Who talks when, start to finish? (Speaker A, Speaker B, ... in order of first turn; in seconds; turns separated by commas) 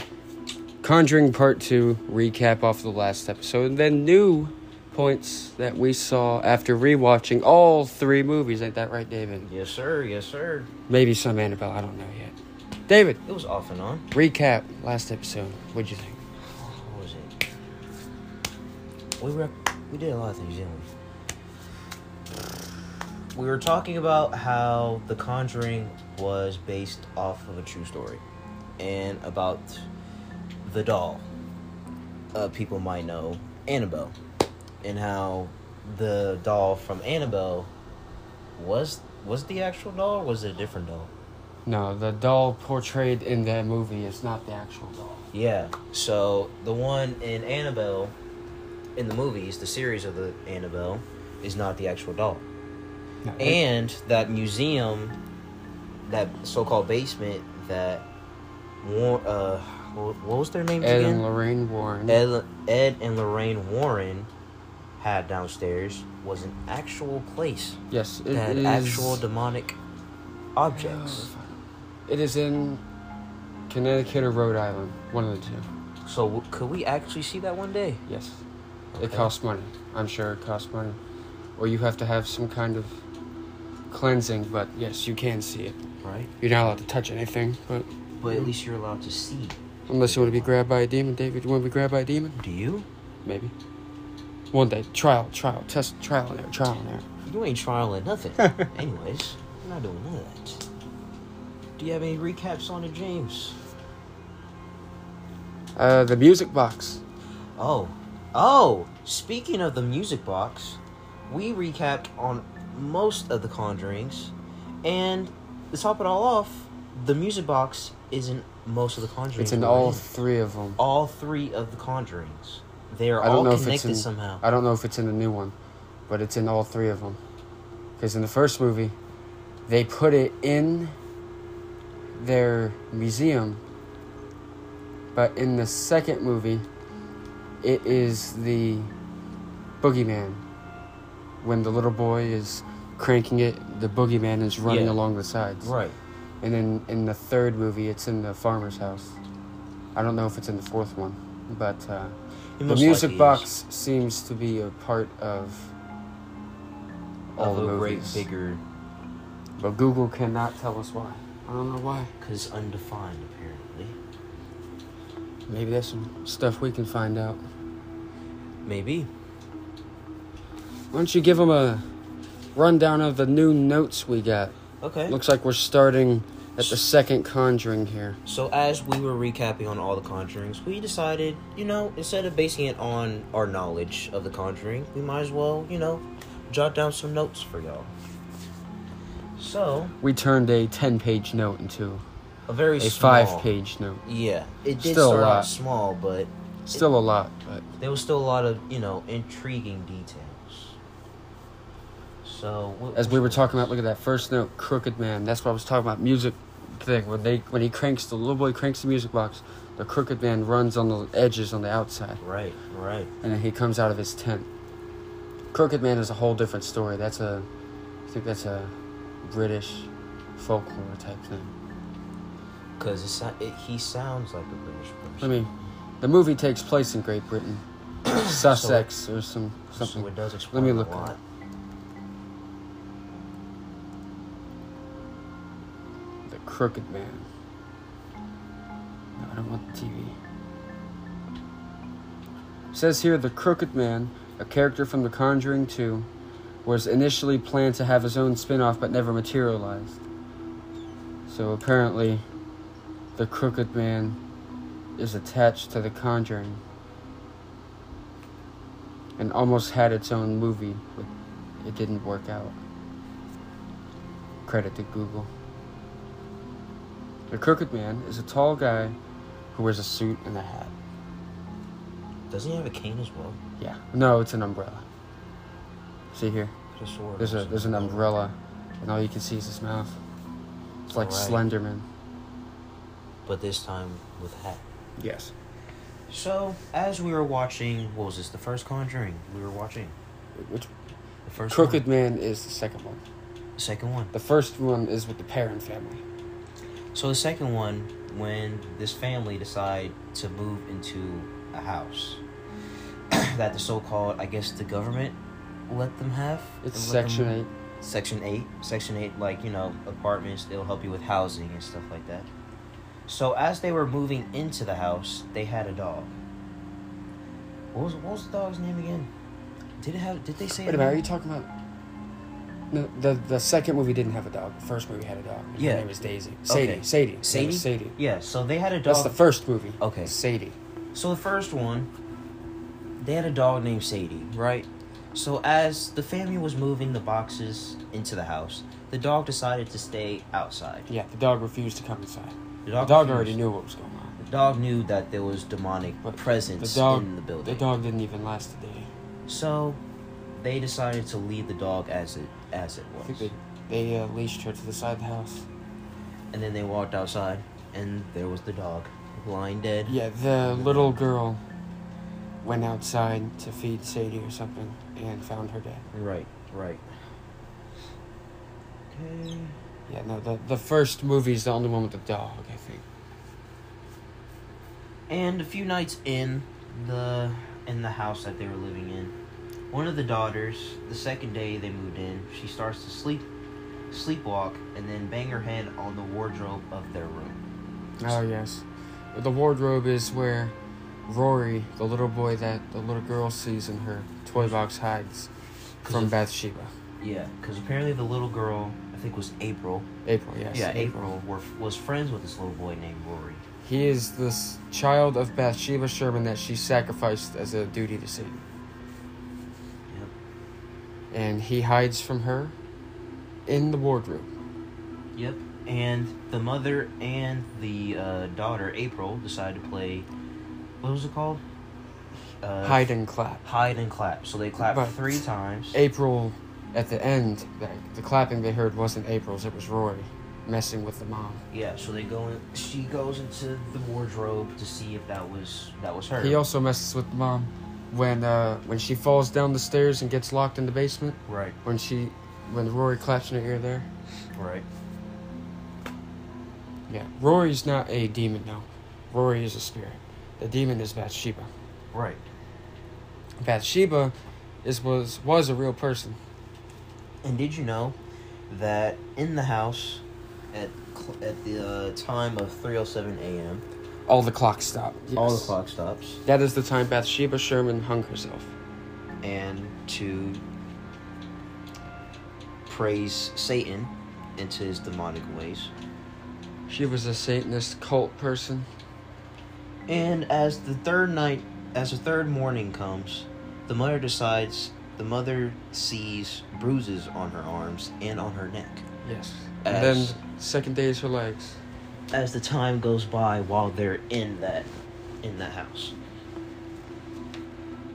Speaker A: 0.8-9.5, Speaker B: 9.4-10.7, Speaker A: 10.9-12.3, Speaker A: 12.9-13.2, Speaker B: 13.2-14.1, Speaker A: 14.1-16.2, Speaker B: 16.5-17.3, Speaker B: 19.2-20.9, Speaker B: 23.3-28.2, Speaker B: 28.8-29.9, Speaker B: 30.6-31.3, Speaker B: 32.3-34.1, Speaker B: 34.8-37.7, Speaker B: 38.6-41.1, Speaker A: 41.6-45.0, Speaker B: 45.3-48.1, Speaker B: 49.0-52.4, Speaker A: 53.2-53.6, Speaker B: 53.4-55.2, Speaker B: 56.0-58.1, Speaker B: 58.8-61.2, Speaker A: 60.8-62.2, Speaker B: 62.1-64.3, Speaker B: 65.0-67.8, Speaker A: 67.9-69.2, Speaker B: 68.3-69.8, Speaker B: 70.5-71.3, Speaker A: 70.7-72.8, Speaker A: 73.7-75.7, Speaker B: 76.0-78.0, Speaker A: 78.1-78.4, Speaker B: 78.9-79.3, Speaker A: 79.0-81.0, Speaker A: 81.6-83.0, Speaker A: 83.9-85.8, Speaker B: 86.0-86.3, Speaker A: 86.4-88.5, Speaker B: 88.2-90.5, Speaker A: 89.9-92.4, Speaker B: 92.4-92.9, Speaker A: 93.2-93.5, Speaker A: 94.5-97.0, Speaker B: 97.2-100.6, Speaker B: 101.8-103.6, Speaker A: 105.8-107.0, Speaker B: 107.6-120.0, Speaker A: 119.3-120.8, Speaker B: 120.8-124.4, Speaker A: 123.2-125.5, Speaker A: 126.1-127.2, Speaker A: 128.0-128.9, Speaker A: 129.7-130.9, Speaker A: 132.2-133.6, Speaker A: 135.1-136.7, Speaker A: 137.6-138.9, Speaker A: 139.8-140.4, Speaker A: 141.4-145.7, Speaker B: 144.6-145.0, Speaker B: 145.6-146.0, Speaker A: 146.4-149.2, Speaker A: 149.9-155.7, Speaker B: 152.6-153.5, Speaker A: 157.3-158.2, Speaker B: 157.3-158.6, Speaker A: 159.6-162.1, Speaker B: 162.2-164.0, Speaker A: 165.5-167.4, Speaker B: 168.6-169.1, Speaker A: 170.9-171.8, Speaker A: 172.5-174.6, Speaker B: 174.8-175.2, Speaker A: 175.1-178.2, Speaker B: 178.2-187.9, Speaker B: 189.4-189.9, Speaker A: 190.0-192.0, Speaker B: 192.5-193.5, Speaker A: 192.8-194.0, Speaker B: 194.1-196.9, Speaker A: 194.7-195.5, Speaker A: 196.7-197.7, Speaker B: 197.8-200.8, Speaker B: 202.2-203.7, Speaker A: 202.9-212.2, Speaker B: 212.2-213.1, Speaker A: 213.2-214.5, Speaker A: 215.5-217.5, Speaker A: 218.1-221.5, Speaker B: 222.8-225.5, Speaker A: 225.2-225.5, Speaker A: 226.0-227.6, Speaker B: 228.0-228.9, Speaker A: 228.2-231.2, Speaker B: 229.8-231.2, Speaker A: 236.3-237.3, Speaker A: 239.2-240.2, Speaker A: 242.7-246.1, Speaker A: 246.6-250.0, Speaker A: 251.3-252.2, Speaker A: 253.1-254.2, Speaker A: 255.0-256.6, Speaker A: 259.2-262.6, Speaker A: 264.4-265.3, Speaker A: 267.3-269.0, Speaker A: 269.5-270.7, Speaker B: 272.3-273.4, Speaker A: 273.6-274.9, Speaker A: 276.1-276.5, Speaker B: 276.7-278.1, Speaker A: 277.2-280.0, Speaker B: 280.9-281.4, Speaker A: 280.9-281.8, Speaker B: 283.2-284.6, Speaker A: 285.0-285.3, Speaker B: 286.1-289.9, Speaker A: 290.4-290.7, Speaker B: 291.2-291.8, Speaker A: 291.5-293.0, Speaker B: 293.6-294.1, Speaker A: 294.1-296.0, Speaker B: 296.9-302.2, Speaker B: 303.1-305.2, Speaker B: 305.7-312.3, Speaker A: 306.6-307.5, Speaker B: 313.1-316.2, Speaker B: 317.7-319.1, Speaker B: 319.8-321.0, Speaker A: 320.6-321.5, Speaker A: 322.7-328.0, Speaker B: 325.6-325.9, Speaker B: 326.5-329.2, Speaker A: 328.9-330.6, Speaker B: 329.8-330.1, Speaker B: 330.9-331.9, Speaker B: 333.0-340.9, Speaker A: 340.9-344.2, Speaker B: 342.6-343.4, Speaker B: 344.2-347.7, Speaker A: 346.0-348.9, Speaker B: 349.3-349.8, Speaker B: 350.3-353.3, Speaker A: 353.0-355.4, Speaker B: 356.3-361.0, Speaker A: 359.9-361.4, Speaker A: 362.4-365.8, Speaker B: 365.9-366.9, Speaker B: 368.9-369.6, Speaker A: 369.9-372.8, Speaker B: 375.1-379.1, Speaker B: 379.7-383.3, Speaker B: 383.9-387.4, Speaker A: 388.0-390.5, Speaker A: 391.1-395.3, Speaker A: 395.8-396.7, Speaker B: 395.8-396.1, Speaker B: 397.0-399.9, Speaker A: 400.0-401.1, Speaker B: 400.5-403.4, Speaker A: 403.6-408.4, Speaker B: 409.9-410.1, Speaker A: 411.1-412.6, Speaker A: 413.4-414.3, Speaker B: 415.1-420.1, Speaker B: 420.8-421.4, Speaker B: 422.3-422.9, Speaker A: 422.6-423.4, Speaker B: 423.4-425.8, Speaker A: 424.6-431.4, Speaker B: 431.5-436.4, Speaker A: 436.2-443.9, Speaker B: 441.3-441.6, Speaker B: 444.3-444.6, Speaker A: 446.9-451.5, Speaker B: 451.9-452.2, Speaker A: 453.4-456.2, Speaker B: 457.2-457.9, Speaker B: 458.5-463.6, Speaker A: 464.1-465.5, Speaker B: 465.1-466.2, Speaker A: 466.2-468.5, Speaker B: 469.2-470.4, Speaker B: 472.7-475.7, Speaker A: 476.7-478.7, Speaker B: 479.9-488.8, Speaker A: 489.0-491.6, Speaker B: 489.6-490.2, Speaker B: 492.1-495.9